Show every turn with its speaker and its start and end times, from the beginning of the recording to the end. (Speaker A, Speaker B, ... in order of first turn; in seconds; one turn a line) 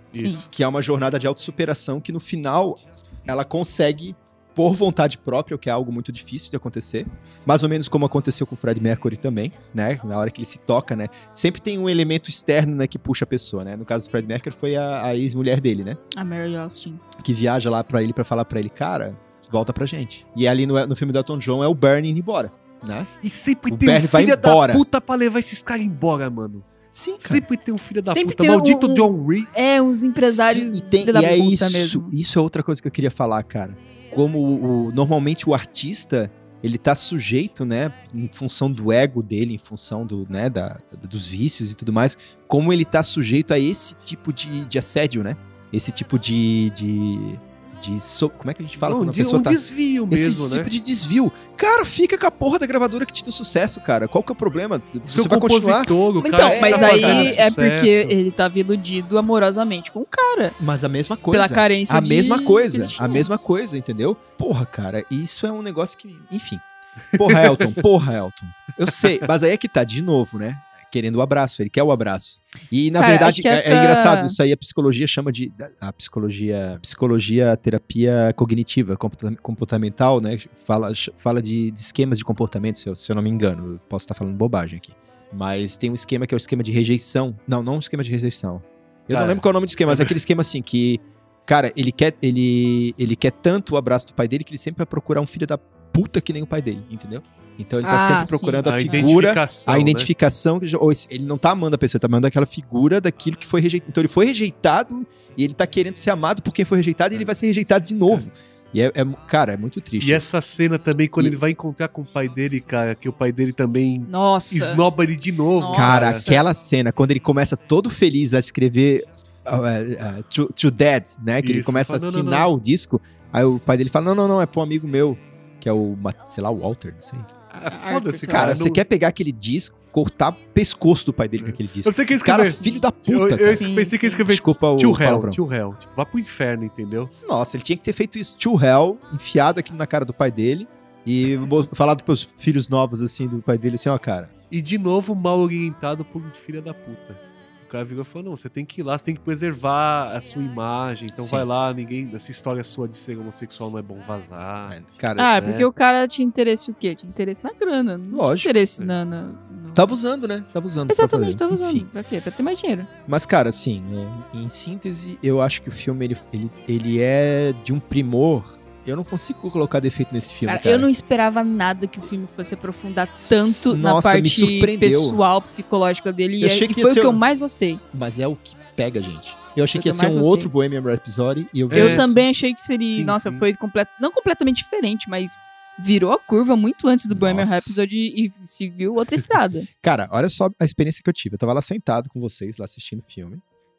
Speaker A: 0.1-0.5
Speaker B: 0.2-0.4
Speaker C: 0.4-16.0
Speaker B: 16.1-17.0
Speaker C: 17.2-23.1
Speaker A: 23.2-26.7
Speaker C: 23.7-24.8
Speaker C: 26.9-27.5
Speaker A: 27.2-29.5
Speaker B: 28.1-32.1
Speaker C: 30.2-57.5
Speaker A: 48.8-50.7
Speaker A: 55.1-58.1
Speaker B: 56.2-60.6
Speaker C: 60.6-66.6
Speaker B: 61.3-63.3
Speaker C: 67.2-110.3
Speaker A: 67.3-67.8
Speaker B: 73.0-74.4
Speaker A: 89.1-90.2
Speaker B: 97.8-99.2
Speaker A: 98.6-100.1
Speaker A: 110.0-116.3
Speaker B: 114.1-114.8
Speaker B: 115.6-116.4
Speaker C: 115.7-127.3
Speaker A: 121.4-122.5
Speaker B: 127.5-128.6
Speaker A: 127.6-128.8
Speaker C: 128.3-133.7
Speaker A: 131.4-137.1
Speaker B: 133.5-134.2
Speaker C: 134.3-135.4
Speaker C: 137.2-144.3
Speaker A: 144.5-154.8
Speaker C: 151.2-151.5
Speaker C: 154.7-155.6
Speaker B: 155.2-159.9
Speaker C: 158.1-158.5
Speaker C: 159.8-161.9
Speaker B: 160.9-162.9
Speaker C: 163.1-170.9
Speaker B: 170.5-177.8
Speaker C: 173.2-175.2
Speaker C: 176.4-177.2
Speaker C: 177.9-182.2
Speaker B: 179.7-180.5
Speaker A: 181.7-182.1
Speaker B: 181.7-189.7
Speaker A: 182.9-183.4
Speaker C: 187.1-187.8
Speaker C: 189.8-193.4